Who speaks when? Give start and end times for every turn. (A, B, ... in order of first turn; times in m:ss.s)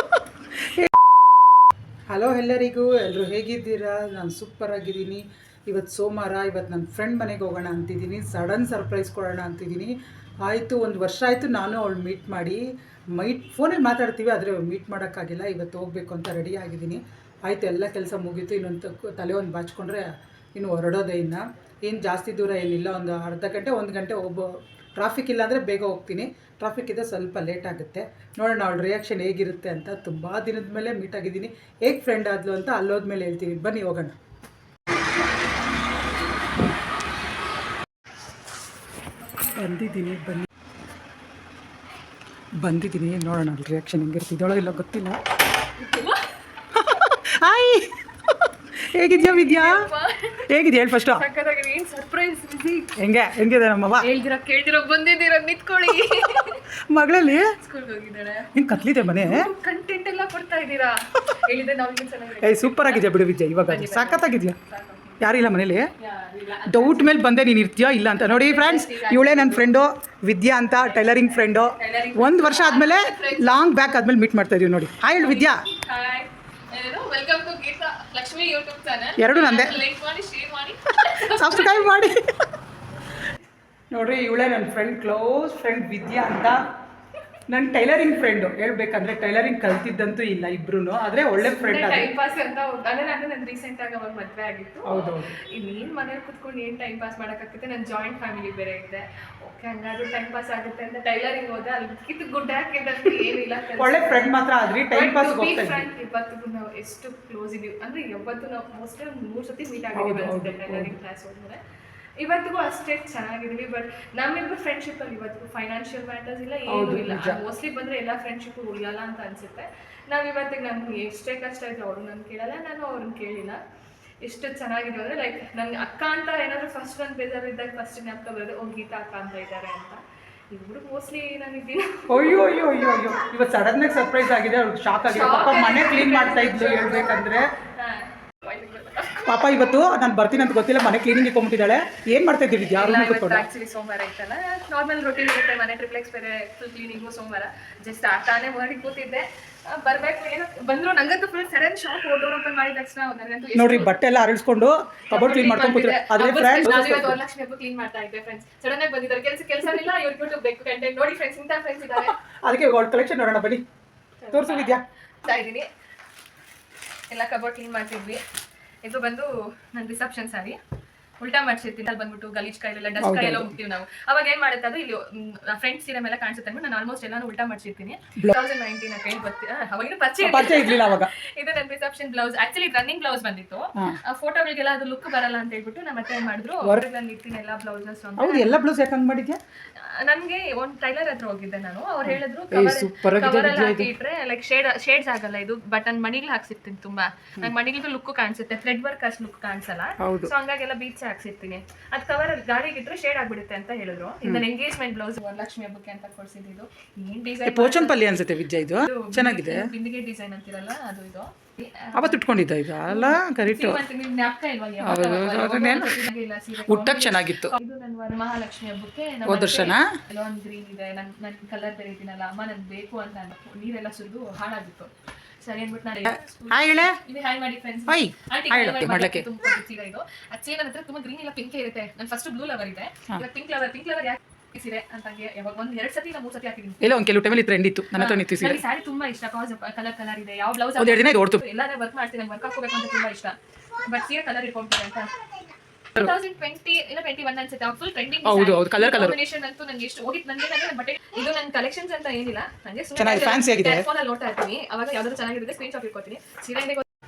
0:02.1-0:09.9 A
0:10.4-0:12.6 A
0:13.1-0:34.1 A
0:39.5-0:40.5 A
0:42.6-0:45.2 A
0:45.8-0:46.3 B
0:46.7-0:47.9 A
0:48.9-0:49.8 A
0:49.1-0:50.5 B
0:50.5-0:51.2 A
0:51.1-0:53.0 B
0:53.0-0:54.0 A
0:54.0-0:56.6 B
0:56.9-0:57.5 A
0:57.6-0:58.5 B
0:58.5-0:59.4 A
0:59.1-1:03.1 B
1:02.4-1:04.6 A
1:03.6-1:05.2 B
1:05.2-1:05.9 A
1:06.0-1:07.1 B
1:06.7-1:15.6 A
1:08.2-1:09.6 B
1:10.8-1:13.6 B
1:15.2-1:22.0 B
1:19.2-1:19.8 A
1:21.3-1:22.3 A
1:23.9-1:26.6 A
1:27.5-1:32.1 A
1:31.4-1:44.3 B
1:34.8-1:35.3 A
1:43.8-1:45.8 A
1:44.9-1:51.6 B
1:49.9-1:50.9 A
1:52.2-2:03.6 B
1:56.7-1:57.4 A
2:04.2-2:10.0 B
2:10.5-2:12.8 B
2:12.1-2:17.4 A
2:15.0-2:17.2 B
2:17.8-2:19.4 B
2:19.2-2:23.4 A
2:22.6-2:33.9 B
2:33.6-2:37.2 A
2:35.1-2:42.2 B
2:42.0-2:43.6 A
2:44.2-2:45.7 B
2:44.3-2:44.8 A
2:47.1-2:48.2 B
2:48.8-2:50.6 B
2:51.2-3:08.6 B
2:53.0-2:53.5 A
3:00.2-3:01.1 A
3:08.2-3:09.4 A
3:09.8-3:28.0 B
3:12.0-3:13.9 A
3:20.0-3:20.3 A
3:27.4-3:29.7 A
3:28.8-3:32.2 B
3:31.9-3:33.8 A
3:32.8-3:44.9 B
3:34.8-3:36.0 A
3:36.7-3:37.5 A
3:39.2-3:39.8 A
3:45.4-3:57.0 B
3:46.0-3:47.0 A
3:47.9-3:49.2 A
3:56.8-3:58.6 A
3:57.9-4:05.3 B
4:00.8-4:01.4 A
4:05.9-4:16.8 B
4:08.2-4:09.2 A
4:13.0-4:13.8 A